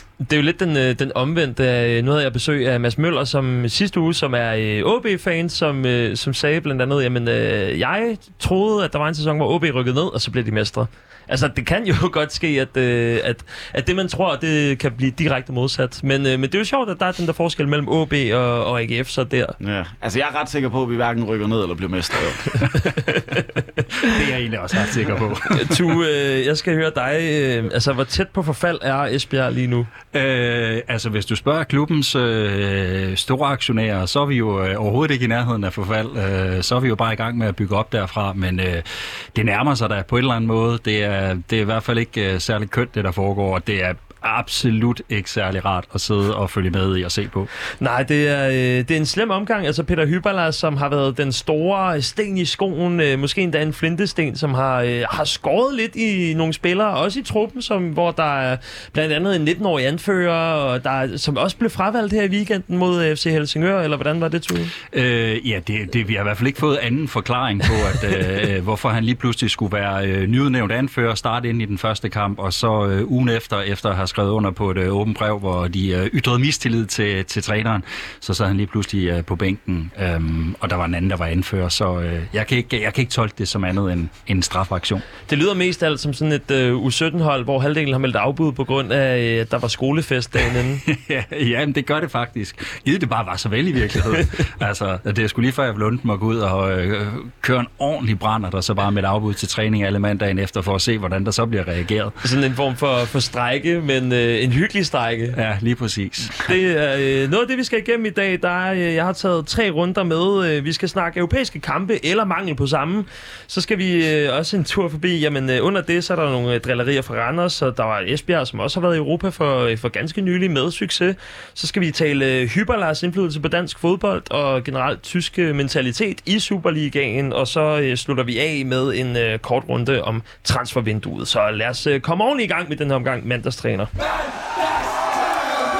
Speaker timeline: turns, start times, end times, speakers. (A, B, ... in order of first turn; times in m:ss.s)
0:00.2-0:19.5 A
0:19.6-0:22.6 B
0:22.8-0:23.6 A
0:24.0-0:26.0 C
0:25.5-0:29.9 A
0:30.1-0:47.5 C
0:47.8-1:04.7 A
1:04.9-1:25.0 C
1:25.3-1:30.8 A
1:30.8-1:42.1 C
1:42.2-1:45.4 A
1:45.3-1:46.4 C
1:46.4-2:13.9 A